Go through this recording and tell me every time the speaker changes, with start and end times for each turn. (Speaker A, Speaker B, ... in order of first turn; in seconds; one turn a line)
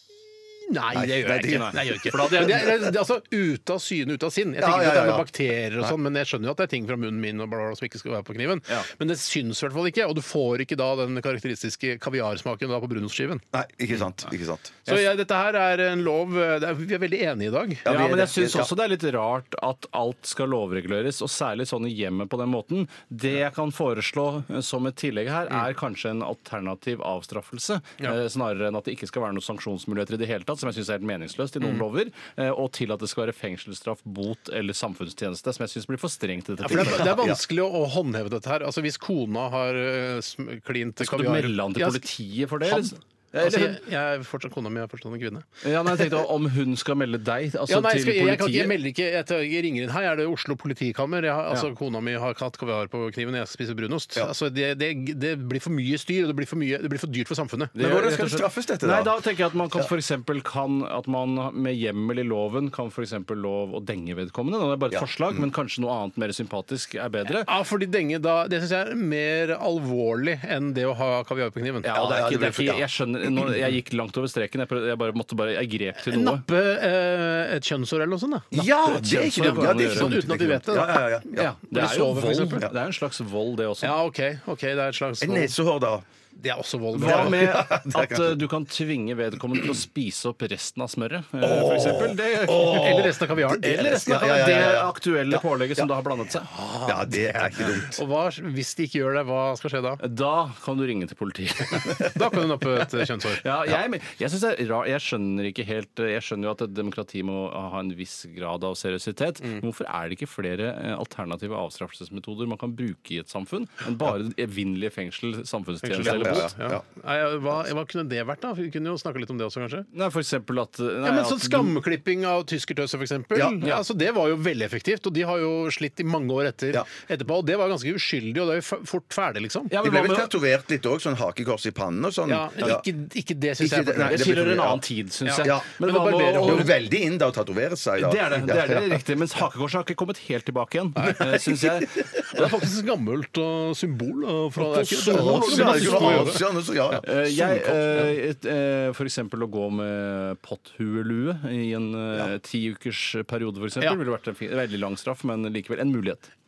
Speaker A: 0.6-13.4
Speaker B: 0.9-2.5
Speaker C: 1.4-2.8
Speaker B: 4.6-5.3
Speaker B: 13.5-14.8
Speaker A: 14.8-17.9
Speaker B: 17.8-18.7
Speaker C: 17.9-37.3
Speaker A: 36.6-42.0
Speaker B: 36.7-37.4
Speaker C: 41.0-43.8
Speaker A: 42.6-46.0
Speaker C: 45.6-48.8
Speaker A: 47.7-57.7
Speaker C: 57.8-67.5
Speaker B: 57.8-59.1
Speaker B: 64.9-65.5
Speaker A: 67.4-71.9
Speaker C: 71.8-76.4
Speaker B: 71.9-73.5
Speaker A: 76.0-82.7
Speaker B: 78.5-81.5
Speaker C: 79.0-80.4
Speaker C: 81.4-84.0
Speaker A: 83.8-85.5
Speaker B: 85.2-86.0
Speaker A: 86.3-87.5
Speaker C: 86.9-96.5
Speaker B: 87.0-88.4
Speaker B: 91.4-95.9
Speaker A: 92.6-94.0
Speaker A: 96.5-100.0
Speaker B: 96.8-98.0
Speaker C: 100.0-102.2
Speaker A: 102.0-103.4
Speaker C: 103.3-116.5
Speaker A: 115.8-119.9
Speaker B: 116.0-116.8
Speaker C: 119.9-121.8
Speaker A: 121.0-129.7
Speaker B: 123.3-123.6
Speaker C: 129.7-130.3
Speaker B: 129.8-132.8
Speaker A: 132.3-136.7
Speaker B: 133.6-134.8
Speaker C: 134.1-136.7
Speaker B: 135.4-135.7
Speaker B: 136.2-139.0
Speaker C: 138.0-142.0
Speaker B: 141.1-142.1
Speaker A: 142.3-146.4
Speaker C: 144.6-146.4
Speaker B: 145.1-148.1
Speaker C: 147.0-156.3